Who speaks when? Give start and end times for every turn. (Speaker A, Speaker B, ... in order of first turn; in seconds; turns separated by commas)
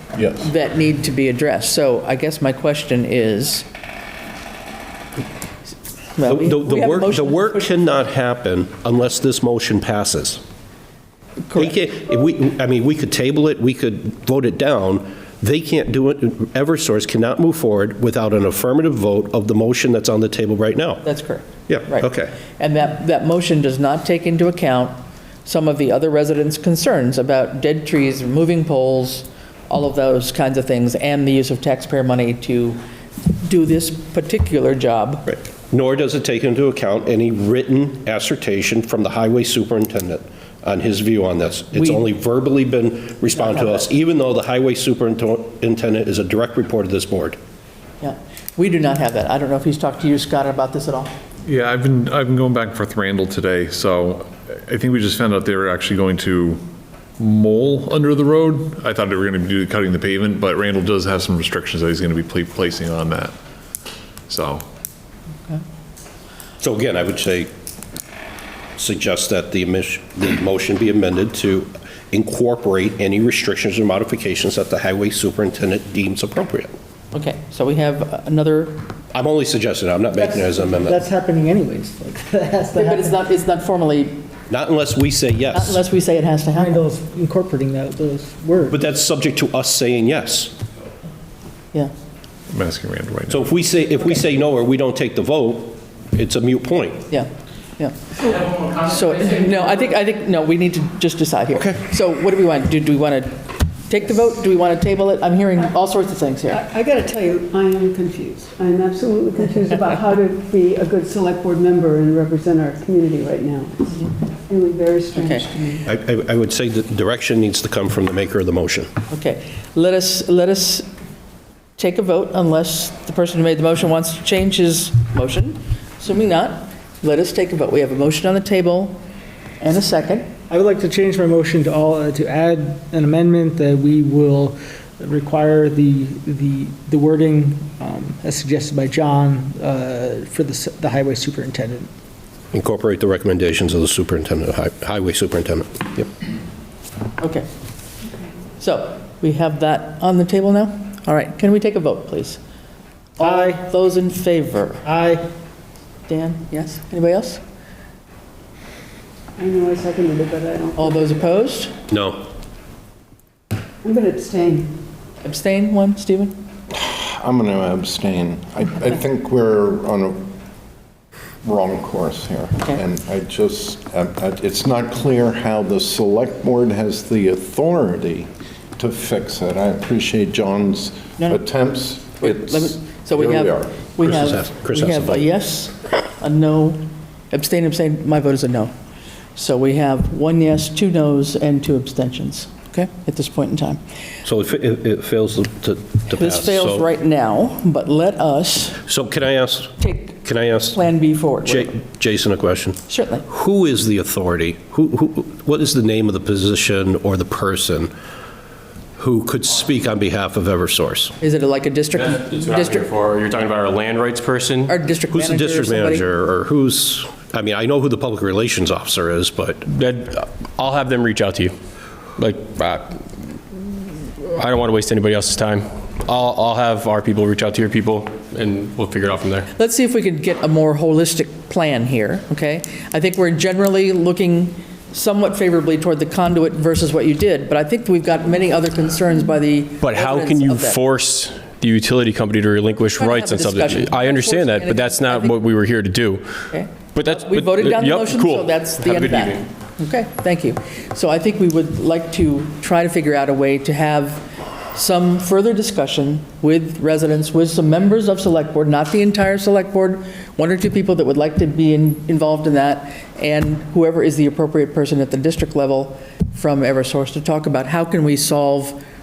Speaker A: 0.2-0.5, Speaker B: 0.3-3.7, Speaker B: 6.2-7.7, Speaker C: 6.2-10.4, Speaker B: 11.5-11.8, Speaker C: 11.5-21.0, Speaker B: 21.0-35.4, Speaker C: 21.7-22.4, Speaker C: 35.7-47.4, Speaker B: 41.8-42.0, Speaker B: 43.3-43.9, Speaker B: 48.0-51.2, Speaker D: 51.4-56.6, Speaker D: 57.2-63.3, Speaker D: 64.3-64.6, Speaker C: 66.6-67.5, Speaker C: 68.8-76.7, Speaker B: 77.1-78.8, Speaker C: 79.1-81.0, Speaker E: 80.1-83.2, Speaker B: 82.7-84.2, Speaker C: 84.5-85.8, Speaker B: 85.5-86.8, Speaker E: 86.5-88.8, Speaker C: 88.7-90.5, Speaker D: 92.5-93.5, Speaker C: 93.3-97.0, Speaker B: 97.1-106.6, Speaker F: 106.5-115.9, Speaker B: 115.2-115.5, Speaker C: 115.8-118.9, Speaker B: 119.1-120.9, Speaker B: 121.8-129.0, Speaker B: 129.6-130.3, Speaker E: 130.5-141.9, Speaker C: 142.5-146.1, Speaker B: 147.2-147.4, Speaker B: 148.6-152.4, Speaker B: 153.2-154.8, Speaker E: 153.2-153.6, Speaker E: 154.8-155.2, Speaker B: 156.1-157.4, Speaker F: 159.4-161.3, Speaker B: 160.8-161.7, Speaker C: 161.9-162.2, Speaker F: 163.8-164.8, Speaker B: 165.2-166.3, Speaker A: 166.7-170.2, Speaker A: 171.4-183.7, Speaker B: 182.2-188.7, Speaker C: 184.0-185.3, Speaker B: 189.3-193.8, Speaker C: 194.2-196.9, Speaker B: 196.1-198.8, Speaker C: 198.9-200.8, Speaker B: 199.8-201.7, Speaker C: 201.4-207.9, Speaker B: 202.9-203.2, Speaker C: 209.0-211.1, Speaker B: 211.2-212.9, Speaker G: 211.9-214.7, Speaker B: 214.7-216.1, Speaker C: 215.1-219.6, Speaker G: 219.7-221.6, Speaker G: 222.2-223.0, Speaker G: 224.2-229.5, Speaker B: 229.5-240.8, Speaker G: 239.8-246.4, Speaker B: 242.9-245.4, Speaker B: 246.5-268.8, Speaker G: 246.9-249.4